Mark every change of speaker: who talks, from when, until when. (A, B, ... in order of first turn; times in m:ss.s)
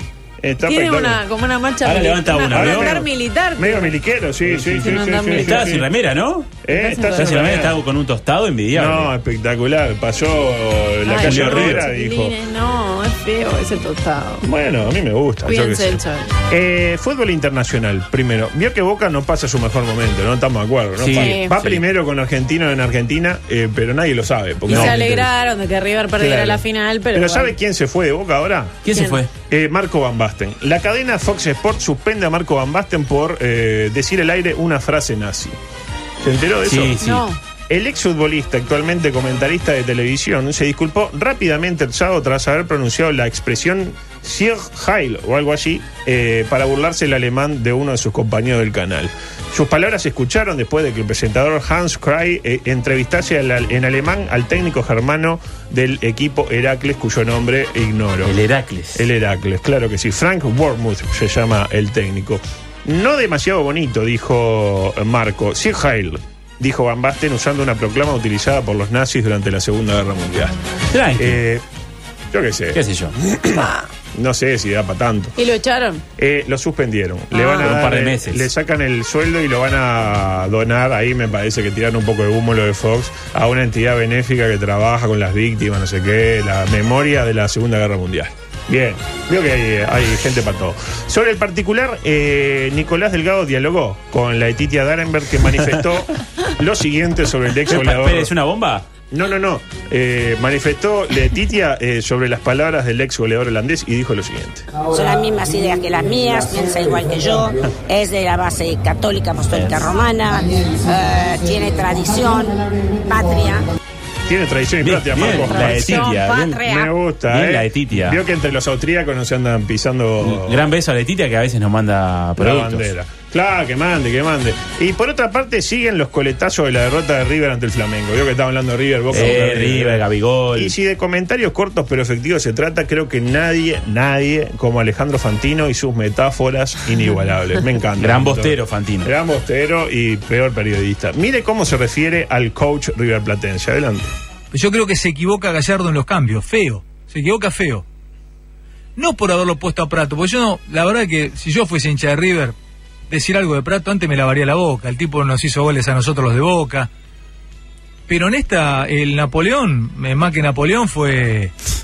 0:00.4-0:01.2 A
0:00.6-0:05.8 B
0:01.8-0:03.0 C
0:02.5-0:03.0 A
0:03.6-0:05.8 A
0:04.5-0:04.7 C
0:05.3-0:06.6 C
0:06.7-0:07.7 B
0:06.7-0:07.7 A
0:07.1-0:09.1 C
0:08.8-0:12.3 A
0:11.0-0:14.4 B
0:11.2-0:11.9 C
0:14.4-0:25.0 A
0:15.4-0:16.3 B
0:21.0-0:21.8 C
0:21.1-0:21.5 B
0:24.7-0:25.2 C
0:24.7-0:27.5 B
0:26.2-0:26.6 A
0:27.1-0:28.7 A
0:28.8-0:29.3 C
0:28.9-0:29.2 B
0:29.5-0:35.5 A
0:36.2-0:37.0 A
0:36.6-0:37.2 C
0:37.0-0:37.4 B
0:37.7-0:58.3 A
0:58.2-0:59.1 C
0:59.0-1:10.5 A
1:10.9-1:11.4 C
1:11.2-1:11.6 A
1:12.3-1:15.3 A
1:12.7-1:13.1 C
1:13.5-1:13.8 B
1:15.4-1:16.0 B
1:16.2-1:38.3 A
1:17.3-1:17.8 B
1:17.6-1:18.5 C
1:37.6-1:38.8 C
1:39.1-1:44.7 A
1:44.9-1:53.6 D
1:49.5-1:49.9 C
1:54.3-1:56.0 A
1:54.8-1:56.7 C
1:55.4-1:56.9 D
1:55.8-1:56.2 B
1:56.7-2:00.6 A
1:57.3-1:58.2 C
2:00.2-2:02.9 C
2:02.4-2:10.0 A
2:09.1-2:10.8 C
2:10.6-2:24.1 A
2:18.0-2:19.1 C
2:24.5-2:27.8 E
2:29.0-2:32.5 E
2:33.1-2:36.9 E
2:38.1-2:41.5 E